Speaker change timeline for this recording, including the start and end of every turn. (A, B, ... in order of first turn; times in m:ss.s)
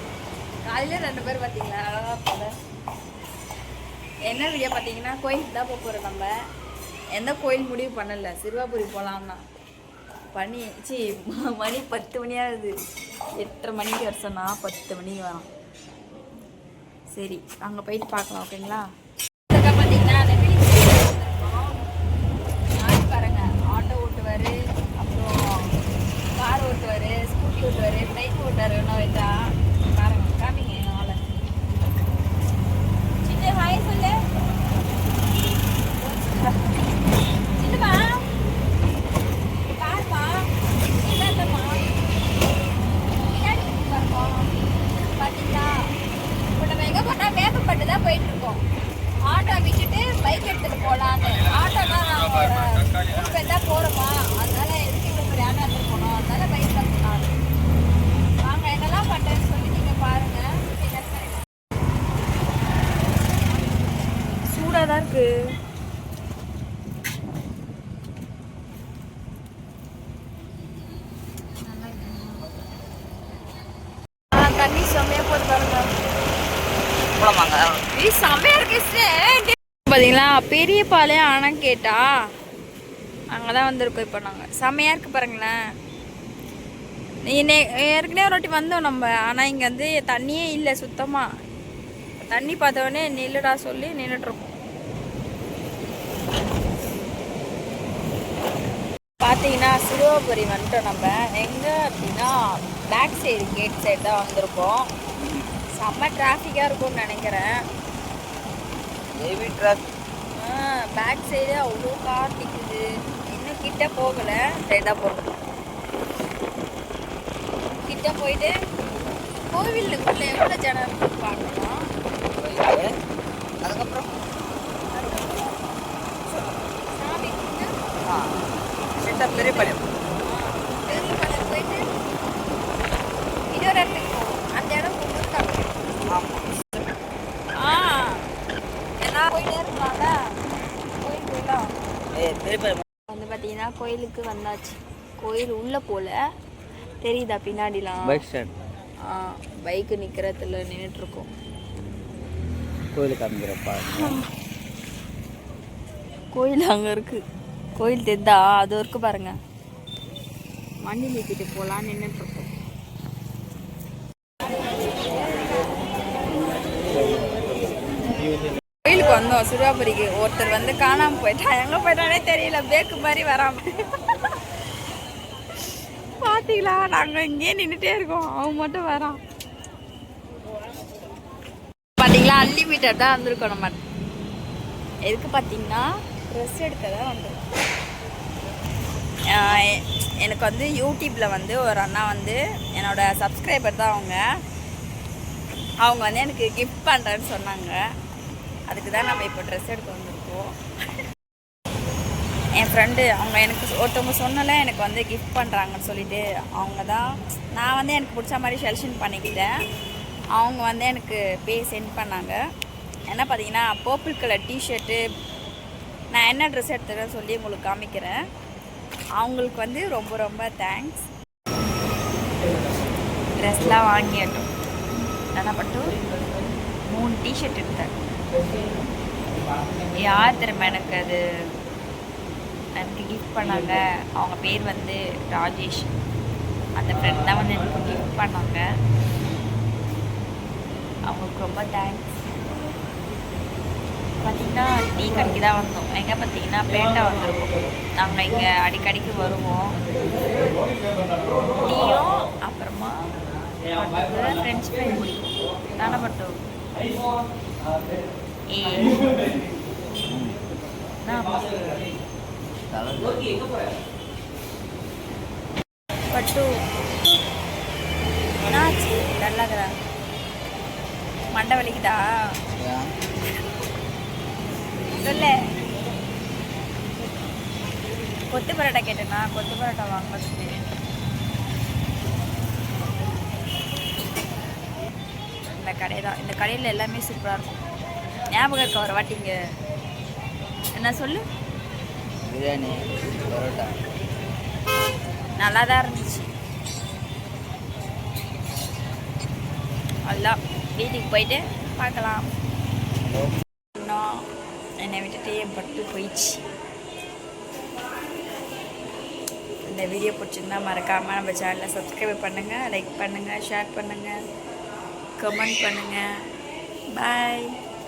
0:00.7-0:02.5 A
0:04.3-0:06.3 A
0:07.2-0:09.4 A
0:10.3-0:12.8 A
0:13.4-0:15.5 A
0:17.1-0:18.8 A
0:19.5-0:21.9 A
0:22.8-0:25.7 A
0:26.4-0:31.2 A
0:33.2-0:34.2 A
0:36.0-0:36.8 A
0:37.5-0:38.2 A
0:39.8-0:41.9 A
0:43.3-0:44.5 A
0:45.1-0:45.7 A
0:46.5-0:48.6 A
0:49.3-0:57.3 A
0:58.4-1:01.4 A
1:04.5-1:05.3 A
1:11.6-1:12.5 A
1:14.4-1:15.9 A
1:17.2-1:17.7 B
1:18.0-1:22.0 A
1:23.3-1:25.6 A
1:27.3-1:31.3 A
1:32.3-1:34.4 A
1:39.2-1:42.3 A
1:42.9-1:44.9 A
1:45.8-1:47.5 A
1:49.2-1:49.8 B
1:50.4-1:55.3 A
1:57.8-1:58.5 A
1:59.5-2:01.7 A
2:02.4-2:02.9 B
2:03.6-2:04.1 B
2:04.9-2:05.5 A
2:07.0-2:07.7 A
2:09.0-2:09.8 B
2:09.1-2:09.7 A
2:10.2-2:11.8 A
2:13.5-2:15.7 A
2:16.1-2:16.4 B
2:17.6-2:18.2 A
2:19.0-2:20.1 A
2:21.0-2:21.7 A
2:22.2-2:22.8 B
2:23.1-2:26.2 A
2:27.0-2:28.2 A
2:28.0-2:28.5 B
2:29.1-2:31.3 A
2:32.9-2:34.2 B
2:33.9-2:34.2 A
2:36.3-2:37.2 A
2:37.8-2:39.4 A
2:40.8-2:42.5 A
2:48.8-2:53.6 A
2:56.2-2:59.2 A
3:02.0-3:03.8 A
3:05.1-3:07.4 A
3:09.3-3:14.2 A
3:15.8-3:17.8 A
3:18.7-3:20.5 A
3:22.6-3:27.0 A
3:27.6-3:29.5 A
3:30.4-3:32.4 A
3:33.1-3:35.0 A
3:36.1-3:38.2 A
3:39.2-3:41.1 A
3:43.4-3:44.5 A
3:45.4-3:46.0 A
3:46.9-3:47.9 A
3:50.0-3:51.2 A
3:52.8-3:55.9 A
3:56.8-3:58.6 A
4:01.1-4:02.2 A
4:04.2-4:09.8 A
4:11.6-4:13.0 A
4:13.7-4:16.4 A
4:18.5-4:19.3 A
4:20.1-4:20.4 B
4:21.0-4:21.5 A
4:22.7-4:23.5 B
4:26.1-4:26.5 A
4:28.5-4:29.7 A
4:31.3-4:32.0 A
4:32.6-4:32.9 B
4:35.0-4:35.4 A
4:38.3-4:40.6 A
4:45.5-4:47.6 A
4:48.3-4:49.3 A
4:50.8-4:51.2 A
4:52.3-4:53.8 B
4:55.4-4:56.3 A
5:00.1-5:02.3 A
5:03.0-5:03.3 B
5:03.8-5:04.1 A
5:04.8-5:06.4 A
5:09.6-5:14.2 A
5:15.2-5:16.1 A
5:16.9-5:17.6 A